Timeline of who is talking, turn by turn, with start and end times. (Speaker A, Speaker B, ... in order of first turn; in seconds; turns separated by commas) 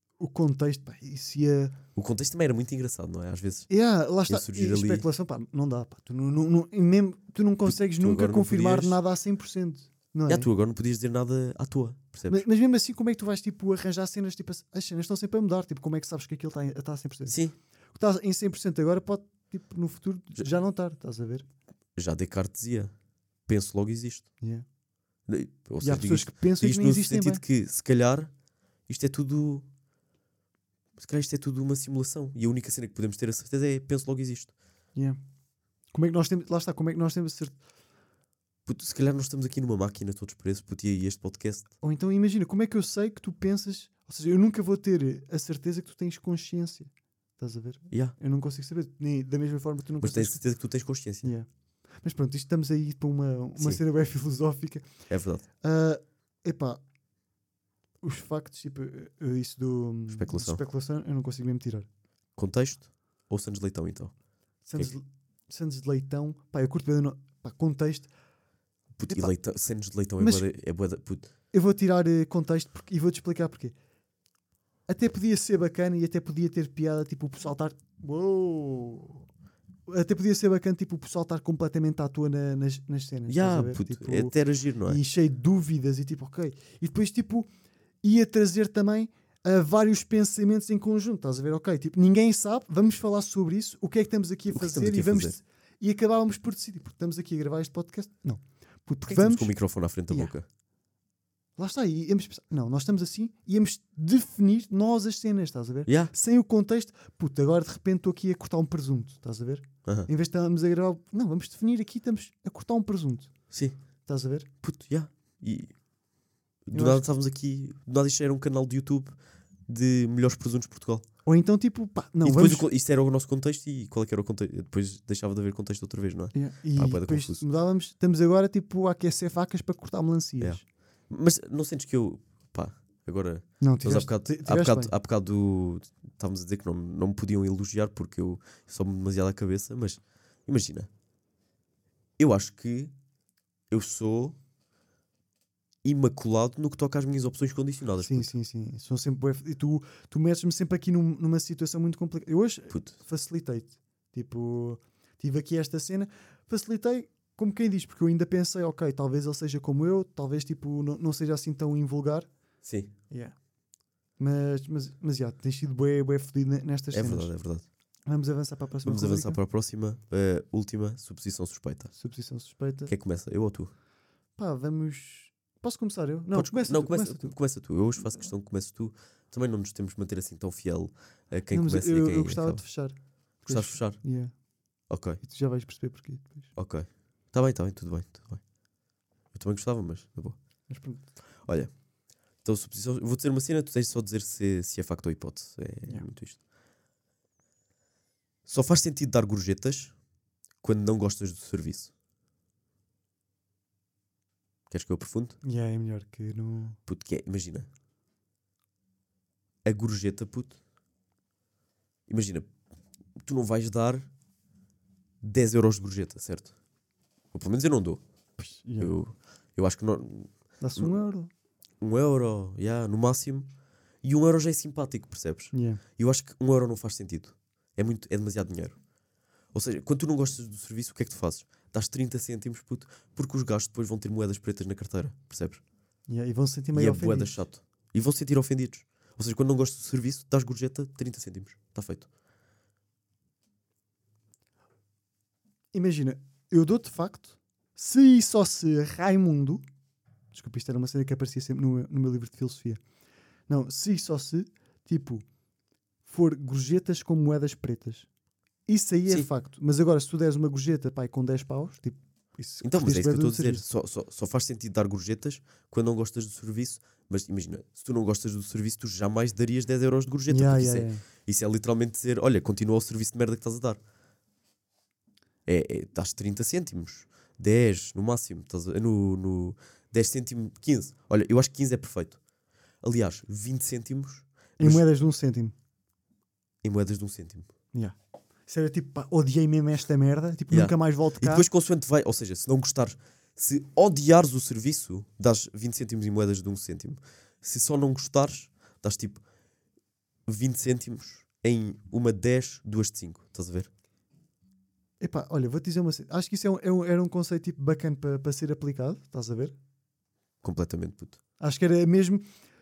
Speaker A: 0.2-1.8, Speaker B: 1.9-3.7, Speaker A: 3.7-10.5, Speaker B: 4.3-5.0, Speaker B: 7.6-9.0, Speaker B: 10.3-12.4, Speaker A: 12.3-17.4, Speaker B: 17.2-17.6, Speaker A: 17.9-21.4, Speaker B: 21.9-22.9, Speaker B: 23.5-24.3, Speaker A: 24.4-24.6, Speaker B: 25.3-28.3, Speaker A: 25.8-27.4, Speaker B: 28.9-29.6, Speaker B: 31.0-34.5, Speaker A: 35.9-37.6, Speaker B: 38.6-41.7, Speaker A: 41.8-50.4, Speaker B: 47.9-48.1, Speaker B: 50.0-51.3, Speaker A: 51.2-54.9, Speaker B: 55.1-55.4, Speaker A: 55.6-56.8, Speaker A: 58.0-61.9, Speaker B: 60.1-60.6, Speaker B: 62.4-64.2, Speaker A: 64.7-68.1, Speaker B: 69.0-71.3, Speaker A: 70.2-70.5, Speaker A: 71.5-73.7, Speaker A: 74.9-79.2, Speaker A: 79.9-84.3, Speaker B: 83.3-85.0, Speaker A: 84.8-87.5, Speaker A: 88.0-99.6, Speaker B: 94.5-95.4, Speaker B: 99.0-100.5, Speaker A: 100.1-100.3, Speaker A: 101.6-113.5, Speaker B: 105.8-106.1, Speaker B: 113.5-113.8, Speaker A: 114.0-114.5, Speaker B: 114.6-115.8, Speaker B: 116.6-121.0, Speaker A: 116.7-117.0, Speaker A: 121.2-122.6, Speaker B: 122.2-127.4, Speaker A: 126.3-130.6, Speaker B: 130.4-140.9, Speaker A: 133.6-134.9, Speaker B: 142.2-142.9, Speaker B: 143.7-144.4, Speaker B: 145.8-148.3, Speaker A: 148.0-162.3, Speaker B: 152.7-153.0, Speaker B: 162.6-162.9, Speaker A: 163.1-163.4, Speaker A: 164.2-167.3, Speaker B: 166.9-167.7, Speaker A: 168.1-169.4, Speaker B: 168.8-171.9, Speaker A: 172.0-172.9, Speaker B: 172.9-173.7, Speaker A: 174.4-177.4, Speaker B: 176.3-182.6, Speaker A: 181.5-184.3, Speaker B: 183.4-184.0, Speaker B: 184.9-185.2, Speaker A: 185.2-186.5, Speaker B: 186.5-188.4, Speaker B: 189.3-190.4, Speaker A: 190.7-191.1, Speaker B: 191.4-191.8, Speaker B: 192.4-196.4, Speaker B: 198.4-200.0, Speaker B: 200.6-201.9, Speaker B: 204.7-205.4, Speaker A: 205.4-206.8, Speaker B: 206.9-207.7, Speaker B: 209.6-210.6, Speaker B: 212.1-212.5, Speaker B: 213.2-214.1, Speaker B: 215.2-216.6, Speaker B: 217.3-218.0, Speaker A: 218.4-219.0, Speaker B: 218.8-220.9, Speaker A: 220.6-221.3, Speaker B: 221.8-223.5, Speaker B: 224.0-228.8, Speaker A: 225.5-225.8, Speaker B: 229.5-235.6, Speaker A: 236.1-237.4, Speaker B: 236.7-242.1, Speaker A: 245.7-249.6, Speaker A: 250.3-252.8, Speaker A: 253.5-255.2, Speaker A: 256.1-258.1, Speaker A: 258.6-263.6, Speaker B: 262.6-273.8, Speaker A: 270.3-271.0, Speaker B: 275.4-282.2, Speaker B: 282.8-284.8, Speaker A: 284.6-285.5, Speaker B: 286.6-287.5, Speaker A: 287.7-291.4, Speaker B: 290.5-299.2, Speaker B: 300.3-303.7, Speaker A: 305.0-309.5, Speaker B: 310.4-311.2, Speaker A: 311.4-312.2